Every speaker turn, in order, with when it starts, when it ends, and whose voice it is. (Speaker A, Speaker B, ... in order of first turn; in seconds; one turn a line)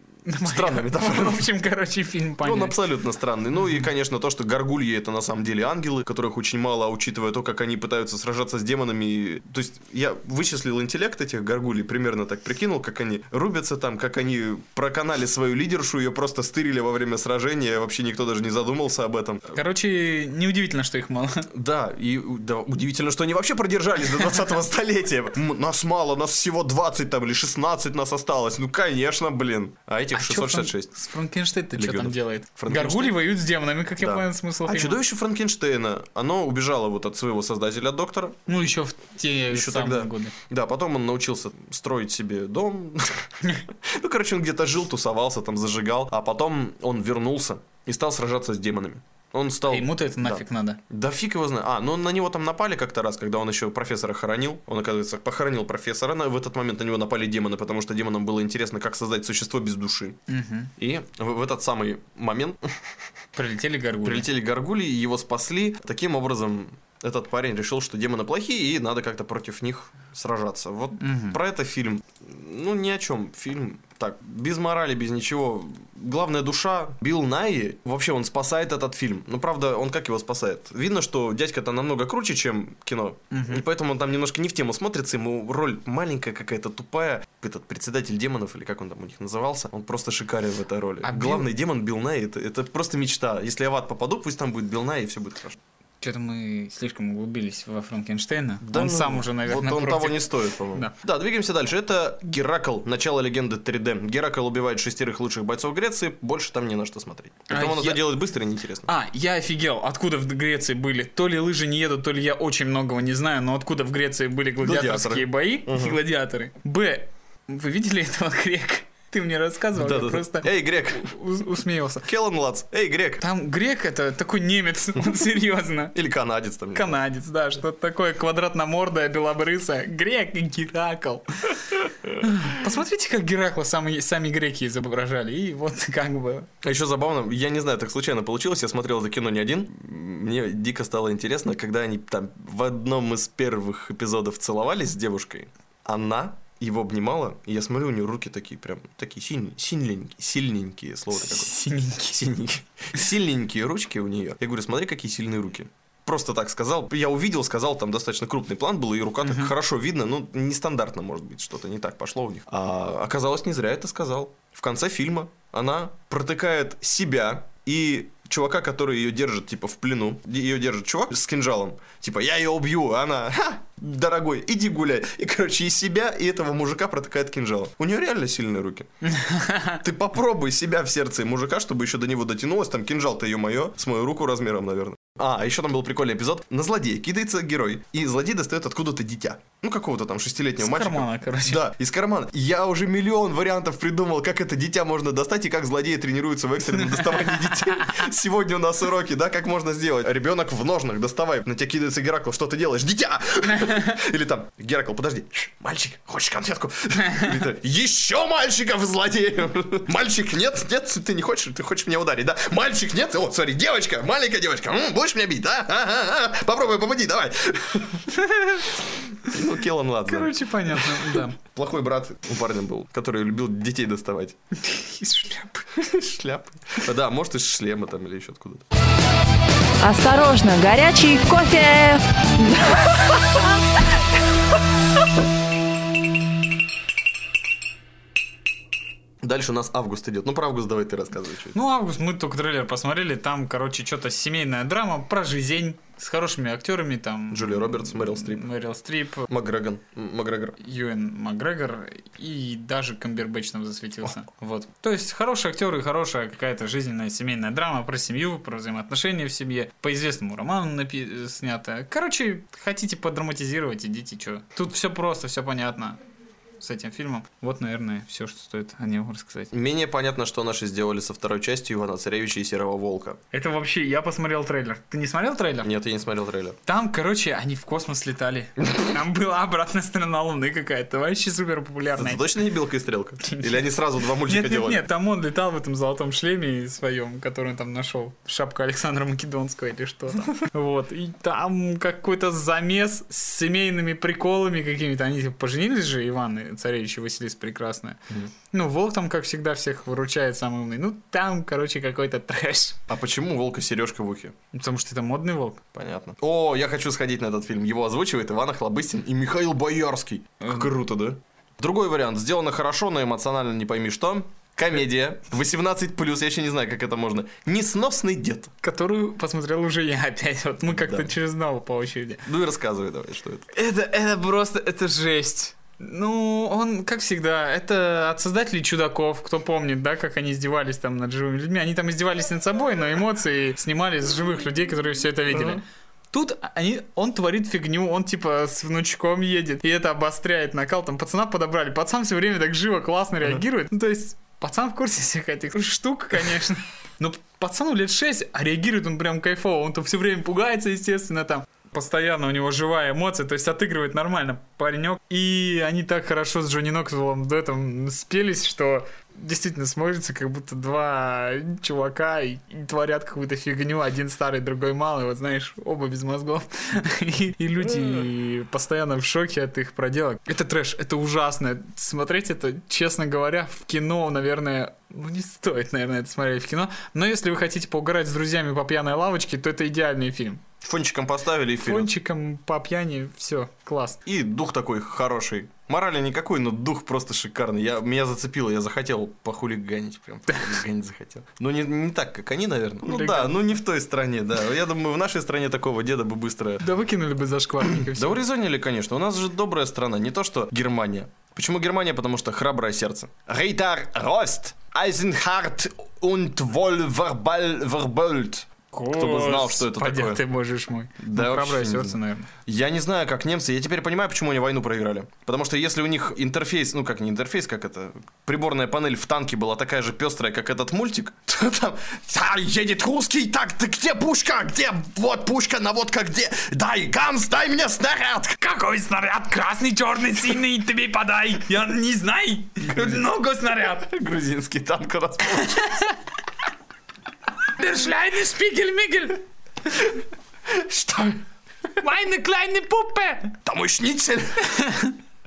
Speaker A: 0.3-2.8
Speaker B: 0.4-1.5
Speaker B: 2.4-19.6
Speaker A: 19.5-21.5
Speaker B: 21.5-30.9
Speaker A: 30.1-35.0
Speaker B: 31.8-33.1
Speaker B: 34.0-38.4
Speaker A: 38.5-40.4
Speaker B: 39.5-60.2
Speaker A: 49.7-50.8
Speaker A: 60.3-60.7
Speaker B: 60.8-62.9
Speaker A: 63.4-64.3
Speaker B: 64.0-95.6
Speaker A: 71.0-71.4
Speaker A: 83.3-83.6
Speaker A: 91.0-91.5
Speaker A: 96.0-100.9
Speaker B: 98.6-108.9
Speaker A: 107.5-108.1
Speaker A: 108.9-122.1
Speaker B: 114.6-116.0
Speaker B: 119.8-121.1
Speaker B: 122.0-123.2
Speaker A: 123.2-126.0
Speaker B: 126.0-127.0
Speaker A: 126.7-136.5
Speaker B: 136.6-151.5
Speaker A: 151.2-152.3
Speaker B: 152.1-178.9
Speaker A: 159.2-159.5
Speaker A: 179.1-179.8
Speaker B: 179.8-218.1
Speaker A: 190.6-191.6
Speaker A: 196.8-197.9
Speaker A: 218.2-218.7
Speaker B: 219.2-224.4
Speaker A: 220.1-221.4
Speaker A: 224.6-225.7
Speaker B: 225.8-228.7
Speaker C: 229.8-233.5
Speaker B: 239.2-241.6
Speaker A: 241.5-249.3
Speaker B: 247.3-248.5
Speaker B: 249.3-250.6
Speaker A: 250.6-266.0
Speaker A: 266.6-269.5
Speaker B: 269.5-273.2
Speaker A: 273.3-275.7
Speaker B: 275.6-276.6
Speaker A: 276.7-282.2
Speaker B: 282.0-284.8
Speaker A: 283.2-283.6
Speaker A: 284.3-298.0
Speaker A: 298.5-302.8
Speaker B: 302.9-304.4
Speaker A: 304.5-305.6
Speaker B: 305.7-318.5
Speaker A: 318.6-322.2
Speaker B: 320.7-321.1
Speaker B: 322.2-323.5
Speaker A: 323.5-380.4
Speaker B: 335.3-335.6
Speaker B: 380.6-381.9
Speaker A: 381.6-384.0
Speaker B: 384.1-396.6
Speaker A: 392.8-393.4
Speaker A: 396.6-398.2
Speaker B: 397.8-410.2
Speaker A: 408.7-412.3
Speaker B: 411.0-428.4
Speaker A: 428.4-433.9
Speaker B: 432.6-433.1
Speaker B: 433.6-435.8
Speaker A: 435.6-435.9
Speaker A: 437.5-439.2
Speaker B: 440.5-441.2
Speaker A: 441.8-443.4
Speaker B: 443.5-444.6
Speaker A: 444.5-445.0